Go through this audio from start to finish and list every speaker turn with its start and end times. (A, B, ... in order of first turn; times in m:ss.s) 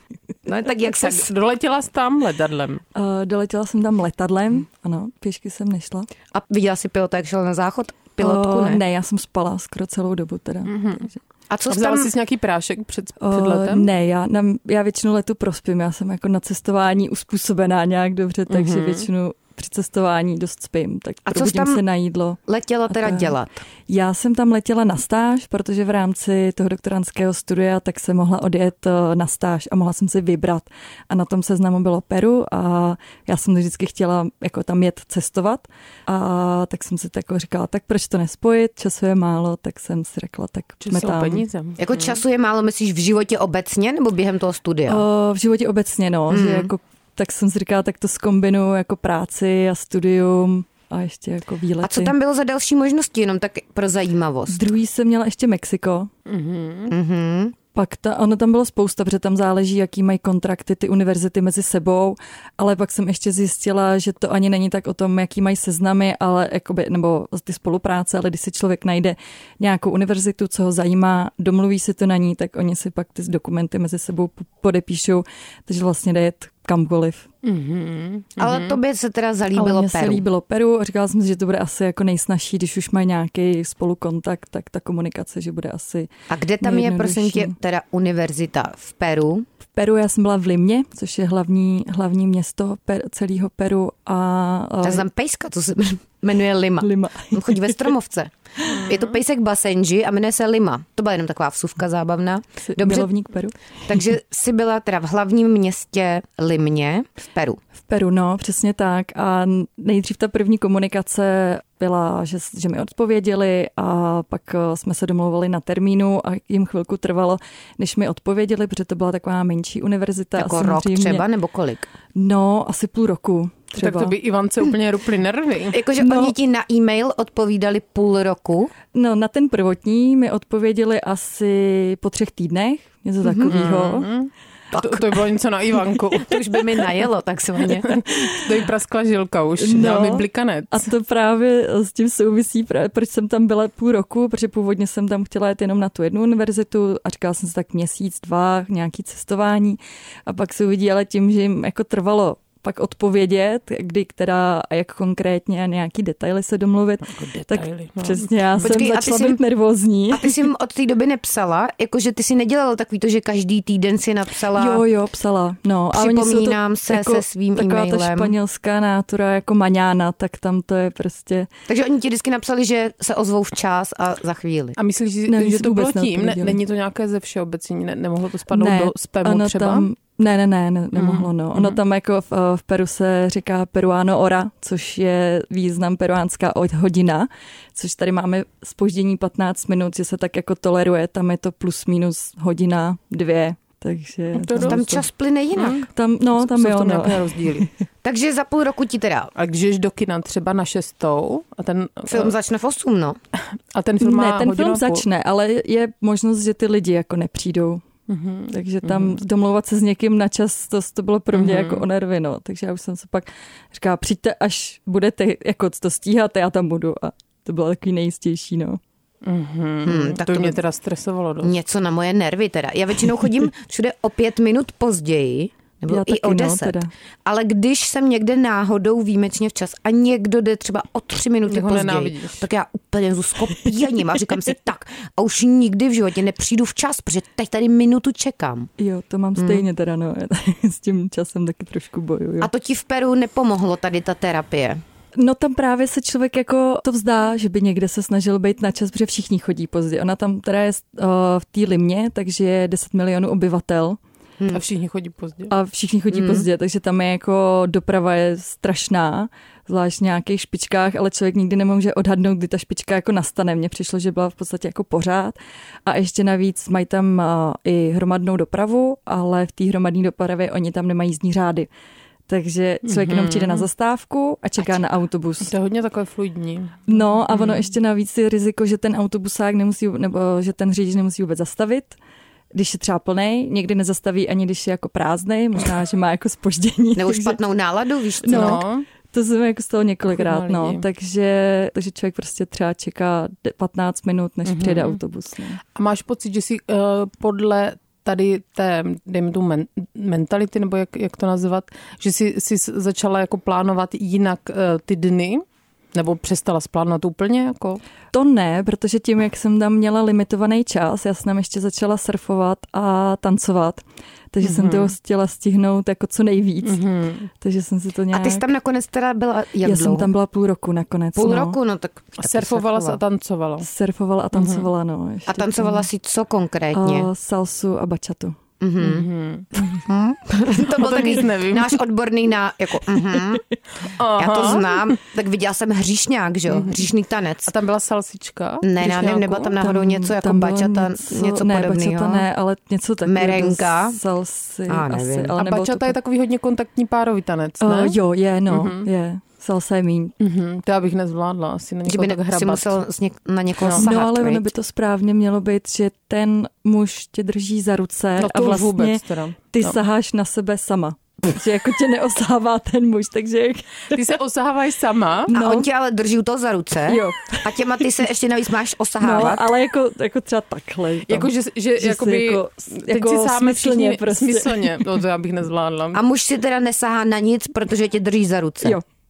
0:00.4-0:01.3 A
0:01.0-0:02.8 B
0:03.0-0:06.1 C
0:06.3-0:08.8 A
0:08.2-0:11.2 C
0:10.7-0:11.1 B
0:11.5-0:12.1 A
0:11.7-0:13.9 B
0:13.2-0:23.4 C
0:18.5-0:19.1 B
0:21.3-0:21.8 A
0:22.5-0:23.6 A
0:23.9-0:41.4 C
0:40.8-0:42.2 B
0:41.8-0:45.0 A
0:44.9-0:52.1 C
0:46.3-0:46.7 A
0:51.8-0:54.6 A
0:54.5-0:56.1 C
0:56.3-0:57.0 B
0:56.9-0:57.6 A
0:57.8-1:17.3 C
1:17.4-1:18.8 B
1:18.4-1:20.2 A
1:19.6-1:26.1 C
1:26.3-1:29.5 A
1:26.6-1:27.6 C
1:29.8-1:35.0 C
1:34.8-1:43.1 A
1:36.8-1:37.8 C
1:38.8-1:39.0 B
1:42.6-1:43.6 C
1:43.9-1:47.6 A
1:47.8-2:01.2 C
2:00.4-2:01.9 A
2:02.2-2:04.1 C
2:03.8-2:05.8 B
2:05.7-2:08.7 A
2:06.0-2:06.3 C
2:08.9-2:14.1 C
2:13.2-2:13.5 A
2:13.5-2:16.8 B
2:14.7-2:15.2 A
2:16.2-2:18.0 A
2:17.6-2:20.9 B
2:19.6-2:40.4 C
2:37.2-2:38.7 B
2:38.6-2:39.4 A
2:40.1-2:44.8 A
2:44.6-2:51.5 C
2:45.9-2:48.4 A
2:51.7-2:54.8 A
2:54.8-2:59.9 B
2:55.3-2:56.6 C
2:58.5-3:15.0 C
3:01.0-3:01.8 B
3:14.3-3:14.8 B
3:14.6-3:15.9 A
3:15.6-3:17.7 B
3:16.0-3:17.7 C
3:18.0-3:19.3 A
3:19.4-3:22.3 B
3:22.1-3:23.2 A
3:23.7-3:25.0 B
3:24.0-3:27.8 C
3:28.1-3:29.2 B
3:28.5-3:38.8 C
3:31.3-3:31.8 B
3:39.2-3:41.5 B
3:39.8-3:40.6 A
3:41.4-3:58.7 A
3:45.9-3:46.9 C
3:51.5-3:52.5 B
3:58.8-4:02.5 C
3:59.4-3:59.6 A
4:02.4-4:04.8 A
4:05.2-4:14.0 C
4:14.5-4:15.5 B
4:15.5-4:31.7 C
4:16.1-4:16.5 A
4:32.3-4:35.5 C
4:32.8-4:33.7 B
4:35.4-4:37.6 B
4:36.9-4:42.0 C
4:42.5-4:47.4 C
4:47.0-4:48.6 A
4:48.2-4:55.6 C
4:48.3-4:48.9 B
4:50.1-4:50.8 B
4:54.5-4:55.0 B
4:55.8-5:07.8 B
5:08.1-5:16.8 C
5:14.4-5:14.9 B
5:16.6-5:17.3 B
5:17.4-5:18.4 C
5:18.1-5:20.1 A
5:19.6-5:21.6 C
5:21.2-5:23.0 A
5:22.2-5:23.7 B
5:23.6-5:25.8 C
5:24.3-5:24.7 B
5:25.3-5:27.1 A
5:26.7-5:28.4 C
5:28.6-5:29.1 A
5:28.8-5:29.5 B
5:29.6-5:33.4 A
5:30.6-5:31.8 B
5:34.0-5:34.9 B
5:34.2-5:37.5 A
5:36.5-5:36.9 B
5:37.5-5:39.6 B
5:38.6-5:42.3 A
5:39.6-5:46.0 C
5:43.0-5:44.0 A
5:44.7-5:45.3 A
5:45.4-5:48.9 B
5:47.6-5:50.1 C
5:50.2-5:52.8 B
5:51.9-5:54.5 A
5:53.7-6:04.0 C
5:58.2-5:59.8 B
6:03.9-6:05.3 B
6:05.3-6:05.7 C
6:05.3-6:09.5 A
6:06.9-6:07.6 C
6:09.0-6:14.9 C
6:11.1-6:16.0 B
6:15.9-6:18.8 A